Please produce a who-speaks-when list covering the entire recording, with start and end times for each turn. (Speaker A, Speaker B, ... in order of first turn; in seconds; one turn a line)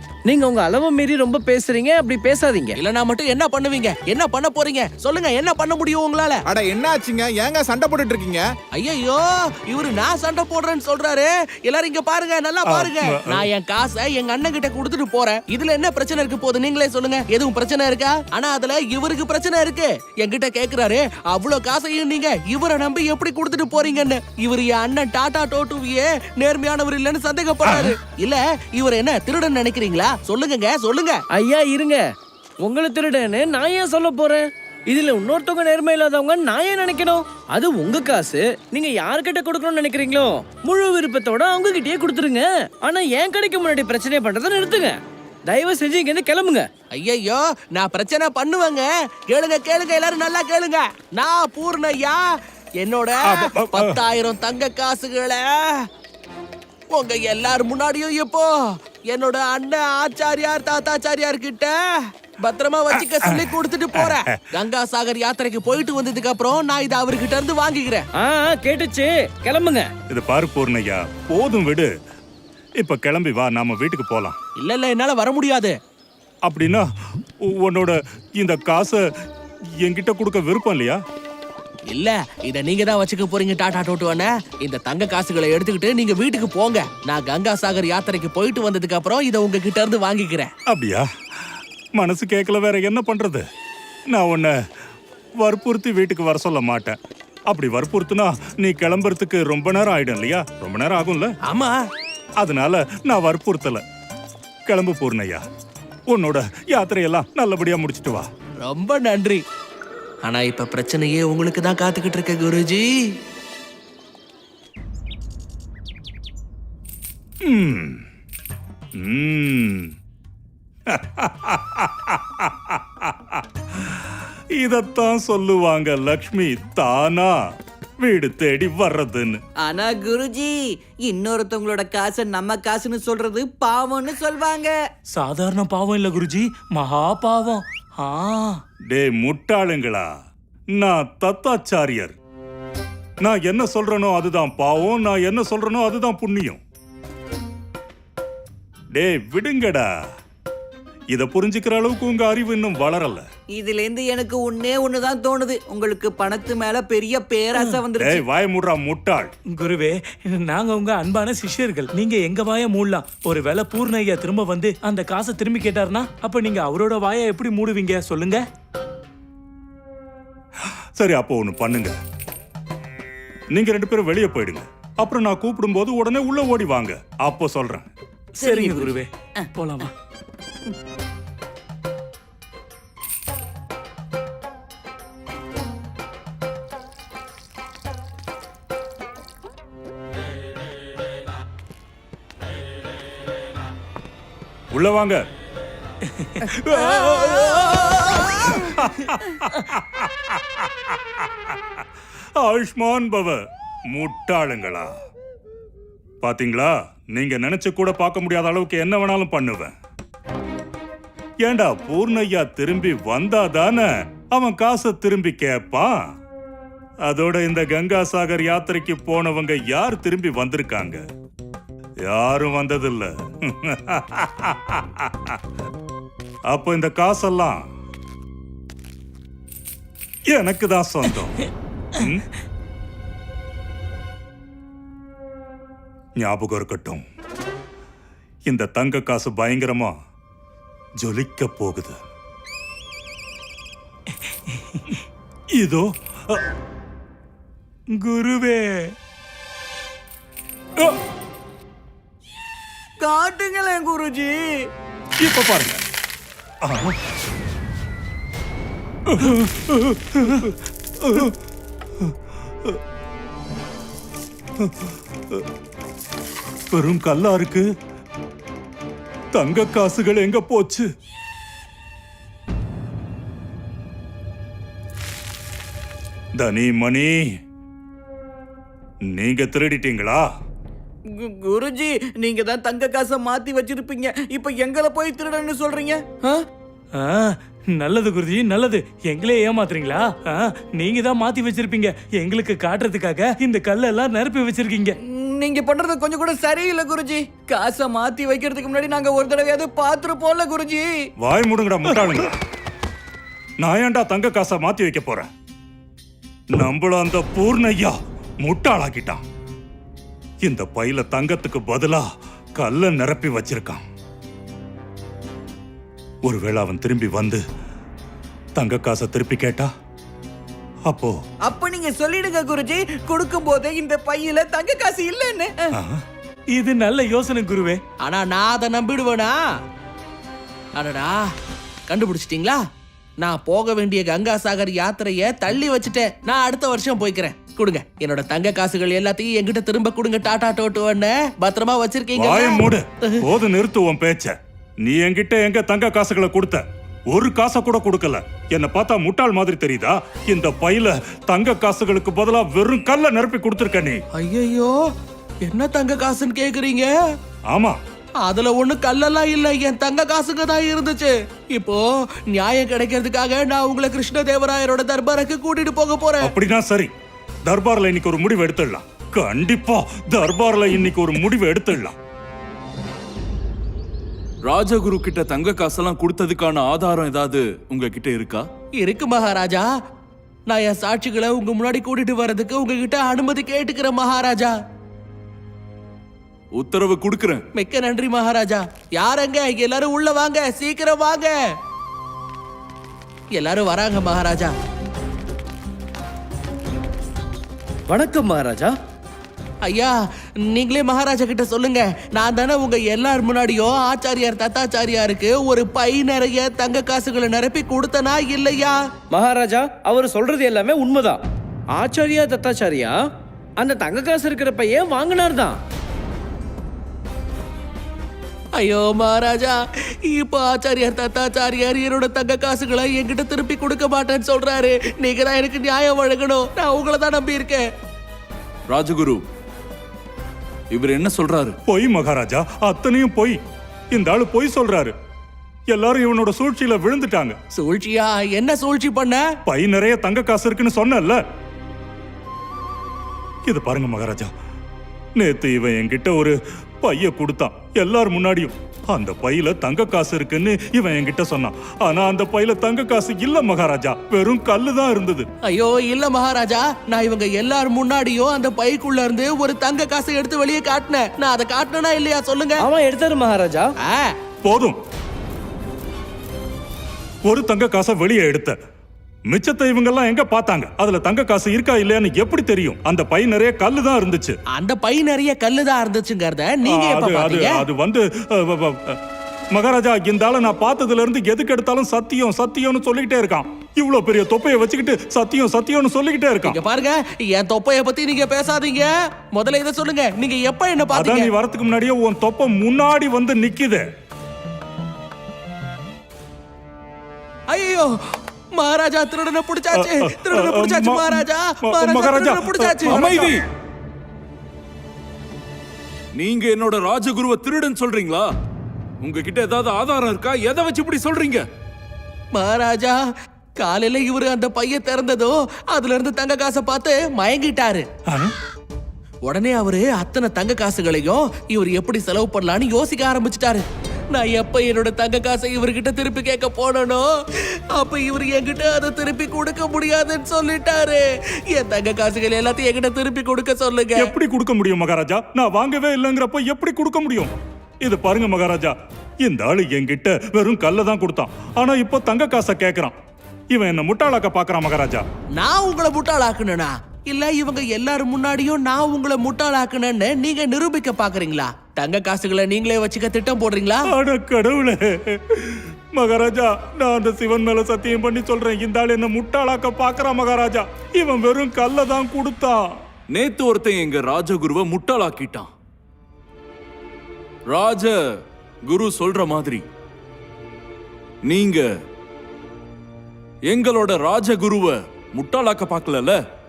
Speaker A: 0.3-2.8
Speaker B: 2.8-6.4
Speaker C: 6.5-8.5
Speaker B: 8.7-31.2
Speaker D: 12.7-13.5
Speaker D: 27.6-27.9
Speaker A: 31.3-32.0
Speaker A: 32.6-46.7
Speaker B: 46.9-52.2
Speaker B: 52.8-55.9
Speaker D: 53.2-54.0
Speaker B: 56.9-68.0
Speaker D: 62.9-64.4
Speaker A: 68.2-69.9
Speaker D: 70.1-71.9
Speaker D: 72.8-74.3
Speaker B: 74.6-75.7
Speaker D: 76.5-76.8
Speaker D: 77.4-79.0
Speaker D: 79.8-81.0
Speaker B: 81.9-90.5
Speaker D: 90.7-91.0
Speaker D: 92.0-93.4
Speaker D: 94.1-94.5
Speaker D: 95.4-97.0
Speaker D: 97.5-101.3
Speaker B: 101.5-101.8
Speaker D: 102.4-103.8
Speaker D: 104.7-105.4
Speaker D: 106.1-108.3
Speaker B: 108.6-109.4
Speaker B: 110.2-113.1
Speaker D: 117.4-118.0
Speaker D: 119.0-119.9
Speaker D: 120.9-127.3
Speaker D: 128.0-129.4
Speaker E: 129.6-134.7
Speaker F: 135.1-138.6
Speaker D: 138.9-140.0
Speaker D: 140.8-142.1
Speaker D: 143.2-146.6
Speaker D: 148.9-149.9
Speaker D: 151.1-153.2
Speaker E: 153.5-158.2
Speaker F: 157.5-157.8
Speaker D: 158.0-159.3
Speaker F: 159.5-168.4
Speaker D: 171.0-171.9
Speaker D: 173.5-177.9
Speaker F: 178.4-179.9
Speaker E: 178.4-178.9
Speaker D: 194.7-195.2
Speaker D: 196.4-201.3
Speaker D: 202.4-203.4
Speaker D: 203.9-204.9
Speaker D: 206.2-209.7
Speaker D: 211.4-215.9
Speaker D: 217.1-221.0
Speaker D: 222.1-225.4
Speaker D: 226.5-227.6
Speaker D: 230.3-231.4
Speaker D: 231.9-232.2
Speaker D: 236.2-237.0
Speaker D: 238.5-239.9
Speaker D: 241.0-241.9
Speaker D: 245.6-246.4
Speaker F: 248.0-248.9
Speaker E: 253.0-254.6
Speaker D: 255.2-255.8
Speaker D: 256.6-256.9
Speaker D: 259.1-261.3
Speaker D: 264.6-265.4
Speaker D: 266.7-267.6
Speaker D: 269.3-270.9
Speaker D: 276.4-277.2
Speaker D: 279.1-280.2
Speaker E: 281.1-286.4
Speaker F: 287.0-294.9
Speaker E: 295.0-301.1
Speaker D: 301.2-302.3
Speaker D: 303.6-305.3
Speaker D: 306.5-309.2
Speaker D: 310.4-312.0
Speaker D: 312.6-313.8
Speaker D: 316.2-317.4
Speaker D: 318.6-319.7
Speaker D: 320.9-321.1
Speaker E: 321.4-325.7
Speaker D: 325.7-326.0
Speaker F: 326.5-327.8
Speaker B: 328.0-329.4
Speaker B: 330.8-331.2
Speaker B: 331.9-332.6
Speaker B: 333.2-343.2
Speaker D: 342.1-354.0
Speaker B: 354.2-354.8
Speaker B: 355.4-356.9
Speaker D: 357.5-357.8
Speaker B: 358.2-366.3
Speaker D: 366.2-366.9
Speaker D: 367.4-371.9
Speaker G: 374.4-378.5
Speaker B: 378.8-379.6
Speaker B: 380.5-384.5
Speaker G: 386.5-387.4
Speaker B: 387.5-391.3
Speaker B: 393.4-394.5
Speaker A: 397.9-398.7
Speaker B: 399.6-399.9
Speaker B: 400.5-408.8
Speaker A: 409.1-411.2
Speaker A: 411.8-412.9
Speaker A: 413.6-415.6
Speaker B: 418.6-427.6
Speaker G: 428.7-429.2
Speaker G: 430.7-431.6
Speaker D: 431.7-433.4
Speaker D: 433.9-434.9
Speaker D: 435.7-437.4
Speaker B: 437.6-439.2
Speaker D: 439.4-441.2
Speaker D: 443.4-444.3
Speaker D: 445.2-455.3
Speaker B: 455.5-462.6
Speaker A: 462.6-463.6
Speaker B: 463.8-464.1
Speaker D: 464.4-464.8
Speaker D: 467.2-468.6
Speaker D: 469.3-474.4
Speaker B: 474.6-477.6
Speaker D: 476.7-479.0
Speaker D: 479.5-486.6
Speaker B: 486.4-491.3
Speaker D: 490.9-493.8
Speaker B: 497.5-497.9
Speaker B: 498.6-503.3
Speaker D: 499.7-503.3
Speaker G: 502.9-503.4
Speaker G: 506.1-508.3
Speaker G: 509.0-511.5
Speaker B: 512.3-513.0
Speaker B: 513.6-517.9
Speaker B: 519.2-527.0
Speaker B: 527.7-534.1
Speaker D: 534.0-537.3
Speaker D: 537.8-542.9
Speaker D: 543.5-545.0
Speaker B: 545.4-553.9
Speaker D: 553.9-562.6
Speaker G: 563.1-565.5
Speaker G: 567.5-568.0
Speaker G: 568.6-569.6
Speaker G: 571.2-571.7
Speaker G: 573.5-576.2